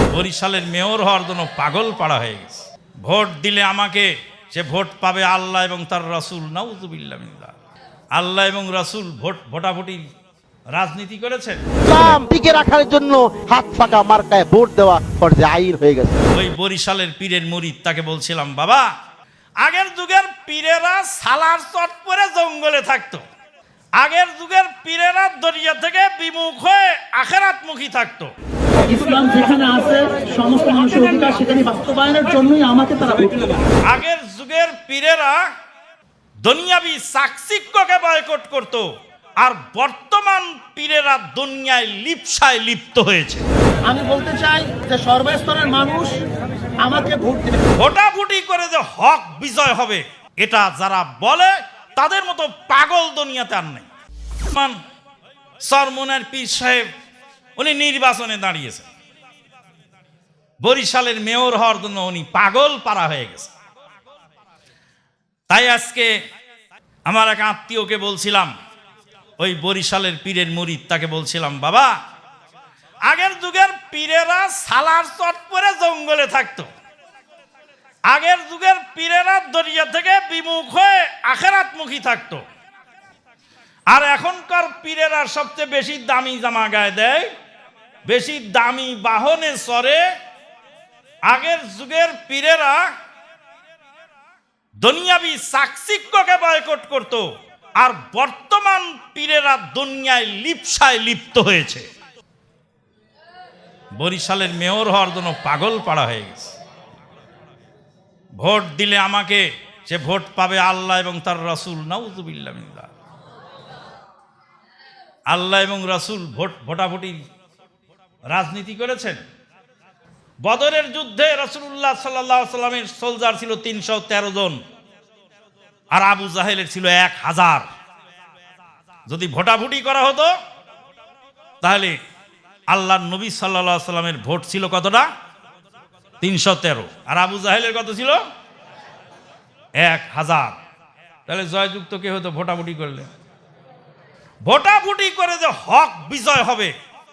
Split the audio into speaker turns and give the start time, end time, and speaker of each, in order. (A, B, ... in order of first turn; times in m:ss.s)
0:00.1-0:07.5 A
0:08.1-0:10.0 A
0:10.7-0:12.2 A
0:11.8-0:16.2 B
0:16.3-0:18.9 A
0:19.6-0:23.2 A
0:24.0-0:28.3 A
0:28.9-0:33.4 C
0:33.9-0:35.4 A
0:36.4-0:38.9 A
0:39.4-0:43.5 A
0:43.9-0:46.2 C
0:46.8-0:47.6 C
0:47.8-0:53.9 A
0:54.4-0:54.8 A
0:55.6-0:56.8 A
0:57.6-0:58.9 A
1:00.6-1:03.5 A
1:05.5-1:06.1 A
1:07.1-1:08.5 A
1:09.4-1:11.9 A
1:13.1-1:16.7 A
1:18.1-1:22.4 A
1:23.9-1:27.3 A
1:28.1-1:30.0 A
1:31.3-1:32.8 A
1:34.8-1:37.2 A
1:37.8-1:41.9 A
1:44.0-1:46.6 A
1:48.4-1:52.9 A
1:55.3-1:57.2 A
1:58.3-1:59.2 A
2:00.4-2:04.6 A
2:05.9-2:07.7 A
2:09.1-2:10.3 A
2:11.6-2:12.0 A
2:12.7-2:15.1 A
2:16.2-2:18.2 A
2:19.8-2:20.6 A
2:21.3-2:23.1 A
2:24.4-2:26.7 A